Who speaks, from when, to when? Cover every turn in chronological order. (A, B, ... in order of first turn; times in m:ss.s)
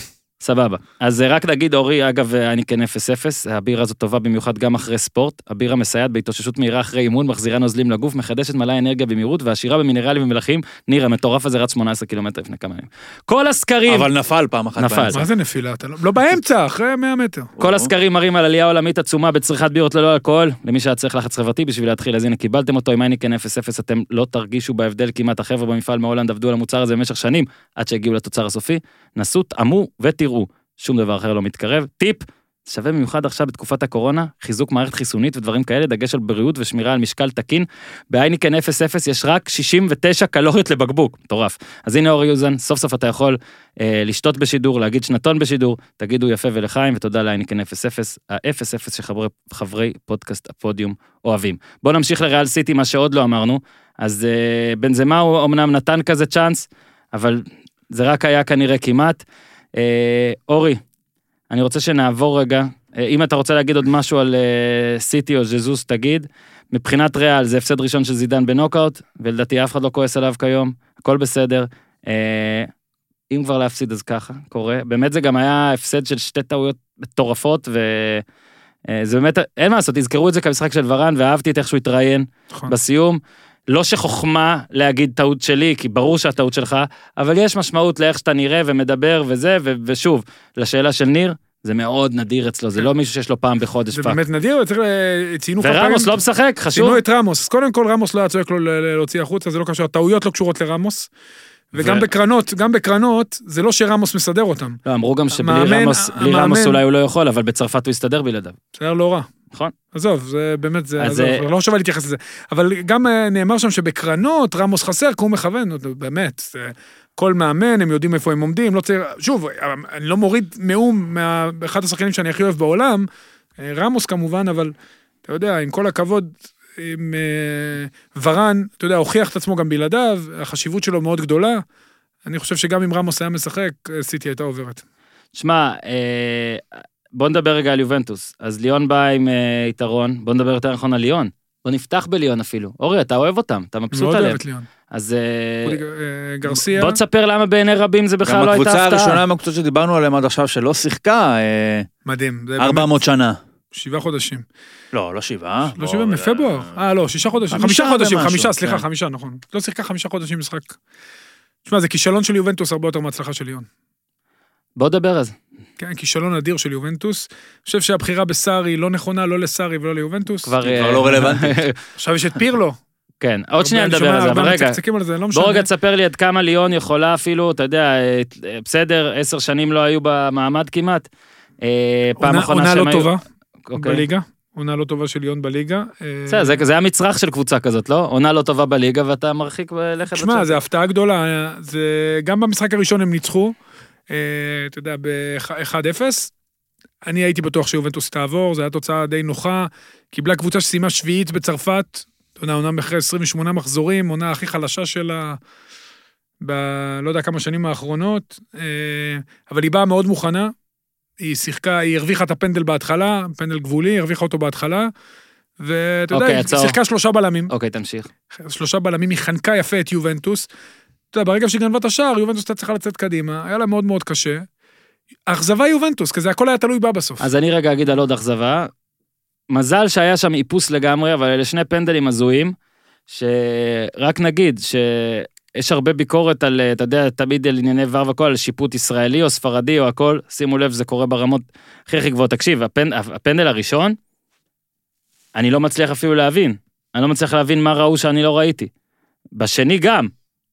0:00.4-0:14.1 A
0:13.9-0:15.2 B
0:14.8-0:15.2 A
0:15.1-0:17.5 C
0:17.6-0:17.9 B
0:17.6-0:59.2 A
0:59.8-1:00.8 A
1:01.5-1:12.7 A
1:13.3-1:18.2 A
1:18.9-1:34.2 A
1:33.9-1:36.2 C
1:35.6-1:37.0 A
1:36.7-1:41.1 C
1:41.7-1:46.8 C
1:41.7-1:42.1 A
1:44.8-1:48.6 A
1:48.7-1:49.3 C
1:49.9-2:03.1 C
1:51.0-1:51.4 A
2:03.6-2:04.7 C
2:05.3-2:11.6 C
2:12.2-2:14.8 C
2:15.3-2:24.4 A
2:23.9-2:24.7 C
2:24.9-2:25.8 A
2:25.6-2:27.0 C
2:26.4-2:29.2 A
2:28.2-2:31.9 B
2:32.0-2:32.9 C
2:32.6-2:33.4 B
2:33.7-2:34.4 C
2:34.9-2:36.8 B
2:35.8-2:40.8 C
2:37.5-2:38.8 B
2:41.6-2:43.7 C
2:44.8-2:45.3 A
2:45.8-2:50.5 C
2:50.4-2:51.8 A
2:50.6-2:51.6 B
2:52.0-2:52.8 C
2:53.2-2:54.8 A
2:53.6-2:55.7 C
2:55.3-3:01.1 A
3:01.6-3:04.0 A
3:02.2-3:03.2 C
3:03.8-3:06.6 C
3:06.3-3:10.6 A
3:10.1-3:13.5 C
3:14.1-3:16.3 C
3:17.0-3:25.4 C
3:26.4-3:30.5 C
3:31.2-3:34.9 C
3:35.6-3:37.5 C
3:36.1-3:36.8 A
3:37.5-3:38.1 A
3:38.3-3:40.5 C
3:41.1-3:44.5 C
3:45.3-3:47.2 C
3:47.2-3:48.7 A
3:49.5-3:52.5 A
3:53.1-4:04.0 A
4:05.3-4:08.7 A
4:09.4-4:10.1 A